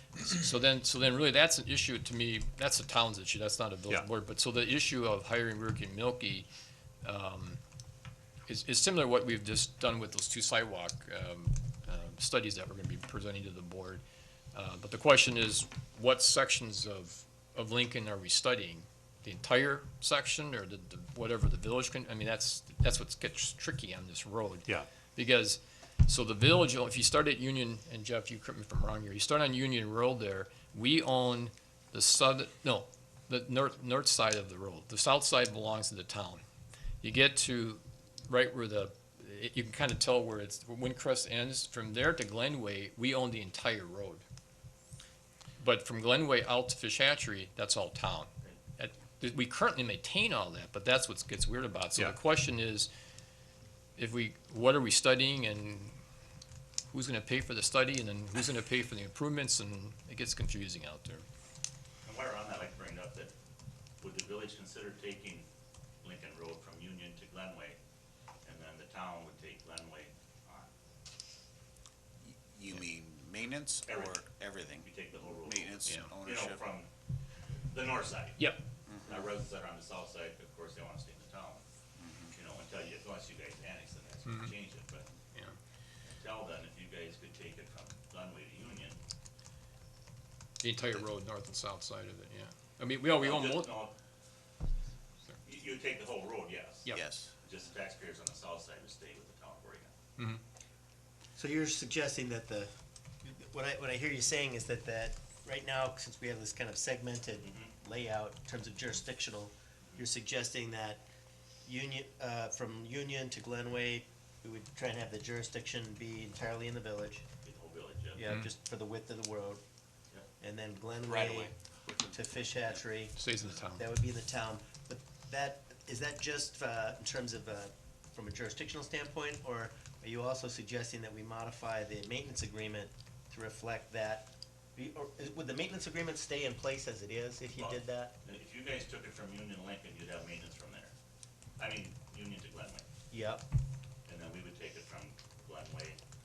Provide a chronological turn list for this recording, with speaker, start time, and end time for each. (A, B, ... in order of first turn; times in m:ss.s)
0:00.2-0:06.5 A
0:07.0-0:07.6 A
0:08.5-0:14.0 A
0:14.5-0:36.4 A
0:37.0-0:44.2 A
0:45.6-0:52.9 A
0:54.0-0:55.9 A
0:56.9-1:01.2 A
1:02.0-1:03.3 B
1:04.0-1:05.5 B
1:06.0-1:07.8 B
1:08.4-1:10.7 B
1:12.2-1:14.9 C
1:13.8-1:16.9 B
1:15.4-1:16.7 C
1:17.7-1:21.6 B
1:18.4-1:18.6 A
1:18.9-1:19.3 C
1:22.0-1:22.3 C
1:22.3-1:25.1 B
1:26.0-1:29.0 B
1:30.6-1:33.7 A
1:33.2-1:33.9 B
1:35.4-1:39.9 B
1:36.9-1:37.4 C
1:41.4-1:42.7 D
1:43.2-1:51.0 D
1:47.4-1:47.7 B
1:51.6-1:57.2 D
1:57.4-1:58.3 B
1:58.2-1:59.6 D
2:00.4-2:18.1 D
2:01.1-2:01.5 C
2:03.2-2:03.8 A
2:17.5-2:20.9 B
2:21.6-2:22.8 B
2:23.1-2:23.5 D
2:24.1-2:26.0 B